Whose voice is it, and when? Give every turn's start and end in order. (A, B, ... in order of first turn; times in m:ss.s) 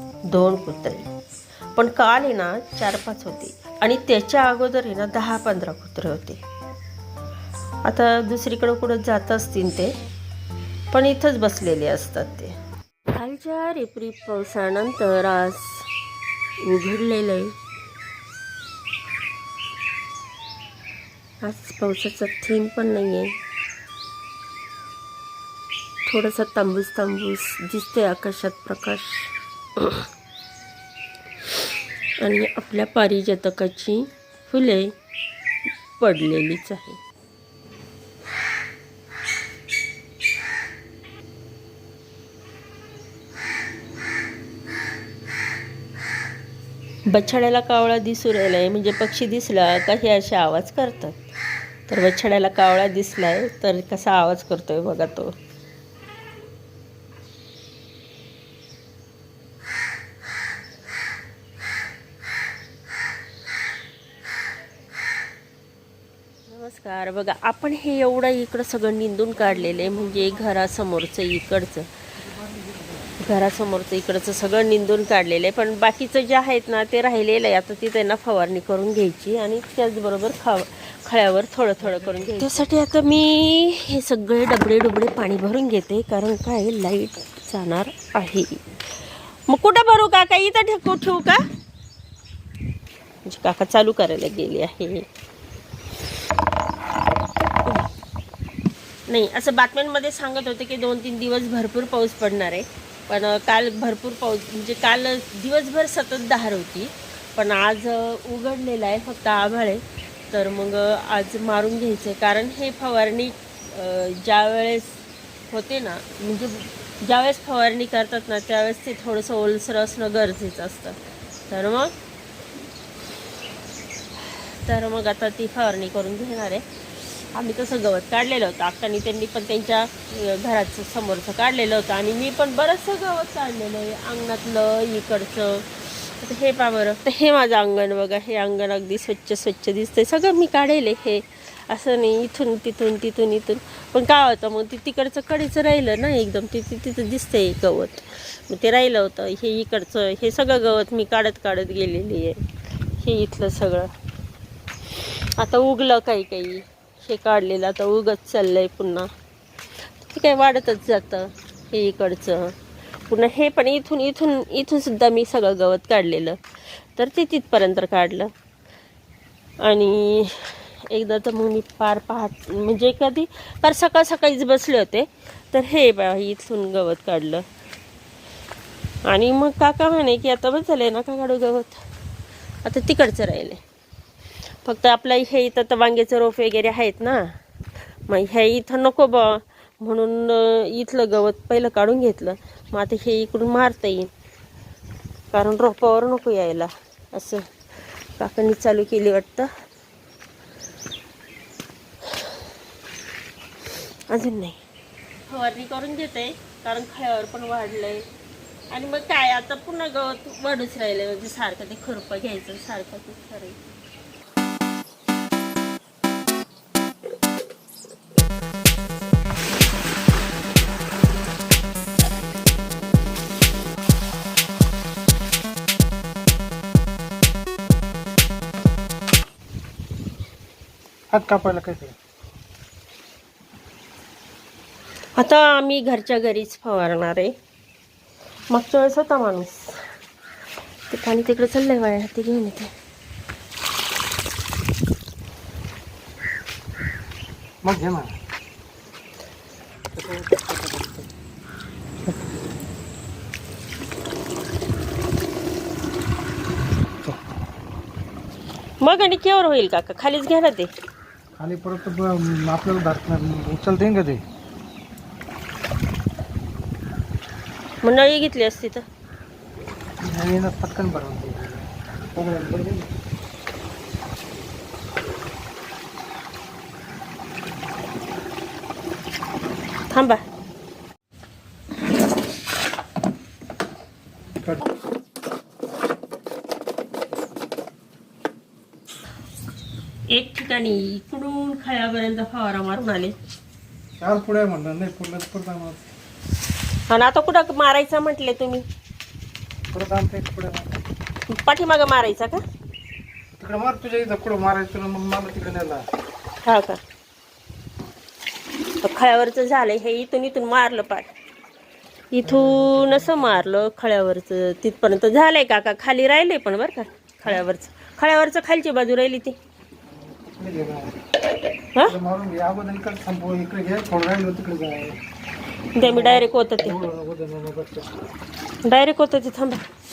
0:00.3-0:01.1 A
0:01.8-0:06.4 A
0:07.8-0:09.9 A
0:10.9-0:12.5 A
0:13.1-0:15.9 A
0:16.6-0:17.5 A
0:21.4-0:23.3 A
0:26.1-0:30.1 A
0:32.2-0:34.9 A
0:36.0-0:37.0 A
0:47.1-0:51.2 A
0:51.9-0:55.3 A
1:06.5-1:11.9 A
1:12.3-1:13.1 B
1:13.2-1:28.6 A
1:21.8-1:22.7 B
1:29.5-1:31.4 A
1:33.3-1:35.0 A
1:39.1-2:01.0 A
2:01.5-2:01.9 A
2:04.2-2:32.4 A
2:33.0-2:33.9 A
2:35.0-2:39.1 A
2:40.0-2:42.5 A
2:43.1-2:46.4 A
2:47.0-2:48.3 A
2:49.6-2:57.4 A
2:59.1-3:01.8 A
3:02.6-3:03.6 A
3:04.6-3:07.3 A
3:08.1-3:14.1 A
3:15.3-3:17.4 A
3:18.2-3:19.5 A
3:24.1-3:24.6 A
3:25.3-3:28.0 A
3:28.7-3:33.6 A
3:51.1-3:52.0 B
3:55.2-3:57.3 A
3:58.5-3:59.9 A
4:00.9-4:02.7 A
4:07.6-4:08.2 B
4:09.9-4:11.1 B
4:18.8-4:20.7 A
4:21.4-4:24.2 B
4:27.8-4:28.8 A
4:30.0-4:31.6 B
4:32.2-4:32.9 B
4:39.9-4:40.2 A
4:44.4-4:44.7 B
4:50.1-4:53.1 A
4:54.0-4:55.9 B
4:56.9-4:58.6 A
4:59.7-5:00.7 B
5:01.3-5:02.4 A
5:03.4-5:05.8 B
5:06.4-5:06.8 A
5:08.8-5:11.1 A
5:12.1-5:19.4 A
5:12.2-5:13.4 B
5:20.2-5:21.0 B
5:21.8-5:25.0 B
5:25.8-5:26.8 A
5:25.8-5:27.9 B
5:28.6-5:29.6 A